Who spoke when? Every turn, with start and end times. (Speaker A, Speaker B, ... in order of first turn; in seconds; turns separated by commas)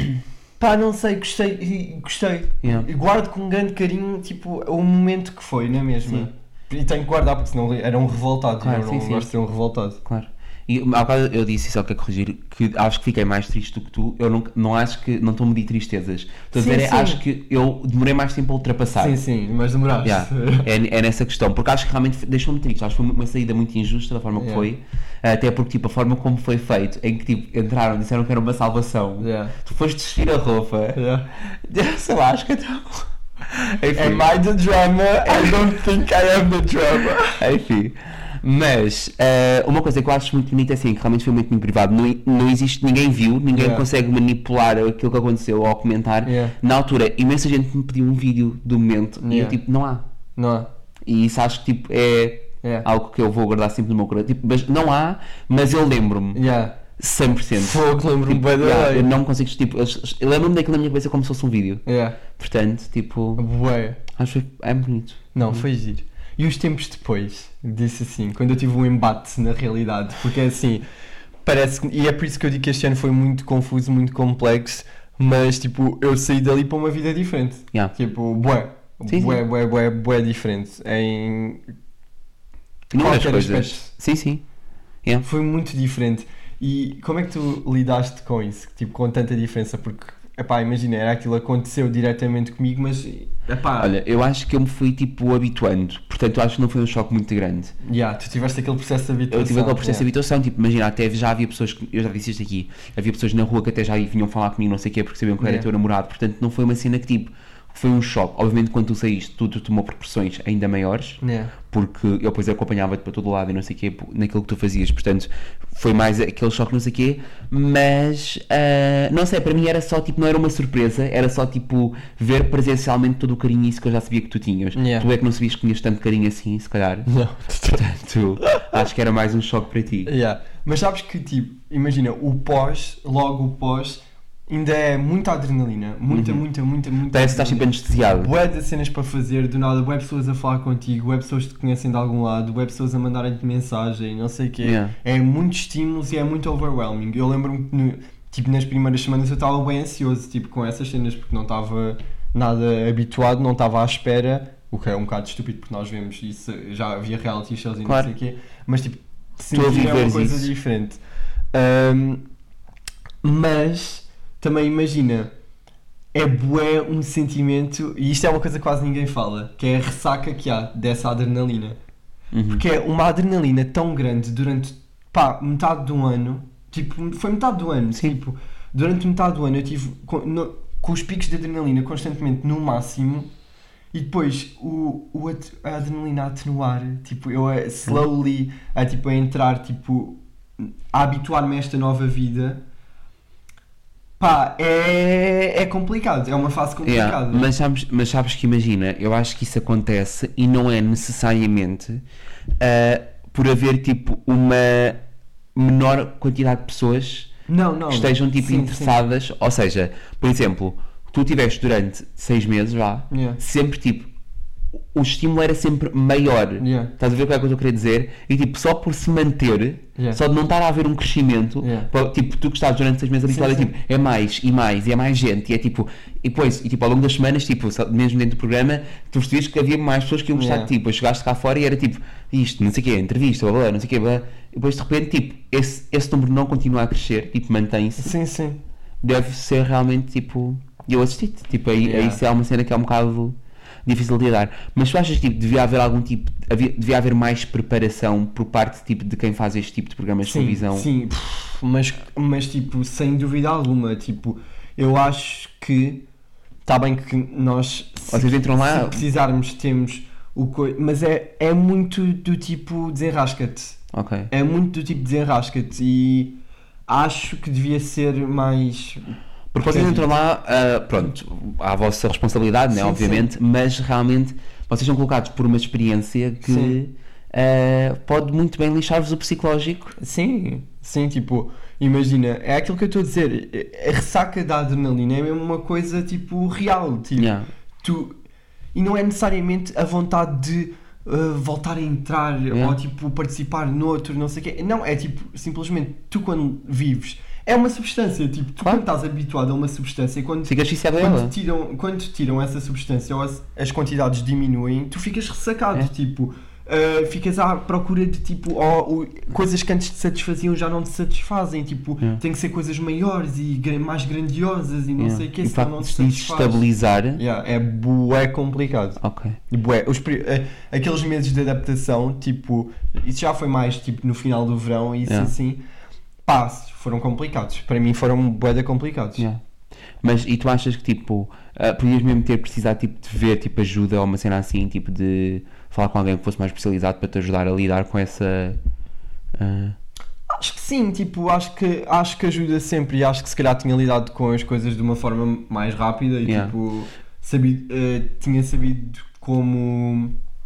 Speaker A: 0.6-10.0, Speaker B: 2.6-2.9, Speaker B: 8.6-9.3, Speaker B: 10.0-19.2, Speaker A: 16.5-17.2, Speaker A: 19.0-20.7, Speaker B: 20.0-34.3, Speaker A: 24.3-24.7, Speaker A: 29.2-29.5, Speaker A: 30.9-31.3, Speaker A: 33.9-37.4, Speaker B: 35.2-35.6, Speaker B: 37.3-50.0, Speaker A: 43.5-43.9, Speaker A: 46.2-46.5, Speaker A: 49.2-49.6, Speaker A: 50.4-50.7, Speaker B: 51.0-56.4, Speaker A: 56.3-56.8, Speaker B: 57.0-63.5, Speaker A: 57.5-59.1, Speaker A: 61.9-62.2, Speaker A: 63.4-64.0, Speaker B: 64.1-65.6, Speaker A: 65.3-70.8, Speaker A: 71.4-81.6, Speaker B: 79.1-79.4, Speaker B: 82.9-84.4, Speaker A: 82.9-83.9, Speaker A: 85.2-93.9, Speaker B: 93.8-97.7, Speaker A: 97.8-100.0, Speaker B: 99.3-127.1, Speaker A: 105.4-105.7, Speaker A: 111.2-111.5, Speaker A: 124.7-125.1, Speaker A: 127.1-127.8, Speaker B: 127.7-130.1, Speaker A: 130.1-161.0, Speaker B: 136.1-136.4, Speaker B: 137.1-138.3, Speaker B: 144.6-144.9, Speaker B: 157.8-158.1, Speaker B: 159.5-160.5, Speaker A: 161.5-162.2, Speaker A: 163.2-165.3, Speaker A: 166.1-171.8, Speaker B: 172.3-172.6, Speaker A: 172.5-183.3, Speaker A: 183.9-192.6, Speaker A: 194.2-197.5, Speaker B: 196.8-202.0, Speaker B: 202.6-205.0, Speaker B: 205.5-207.3, Speaker A: 207.5-209.0, Speaker B: 207.9-214.1, Speaker A: 213.1-213.4, Speaker B: 214.9-238.1, Speaker A: 216.6-216.9, Speaker A: 221.6-221.9, Speaker A: 223.3-223.7, Speaker A: 230.3-230.7, Speaker A: 238.0-238.6, Speaker B: 239.0-250.9, Speaker A: 241.8-242.2, Speaker A: 250.2-256.0, Speaker A: 256.6-263.8, Speaker B: 258.1-259.0, Speaker B: 263.9-264.3, Speaker A: 264.3-270.1, Speaker B: 269.5-280.0, Speaker A: 272.7-273.3, Speaker A: 276.4-276.8, Speaker A: 280.0-288.2, Speaker B: 287.2-287.5, Speaker A: 288.7-316.6, Speaker B: 292.5-292.8, Speaker B: 300.4-301.3, Speaker B: 315.0-317.2, Speaker A: 317.1-319.0, Speaker B: 319.0-319.4, Speaker A: 319.5-325.6, Speaker B: 325.1-325.3, Speaker A: 326.2-329.2, Speaker B: 330.0-338.6, Speaker B: 339.4-339.8, Speaker A: 340.3-350.1, Speaker B: 346.2-346.5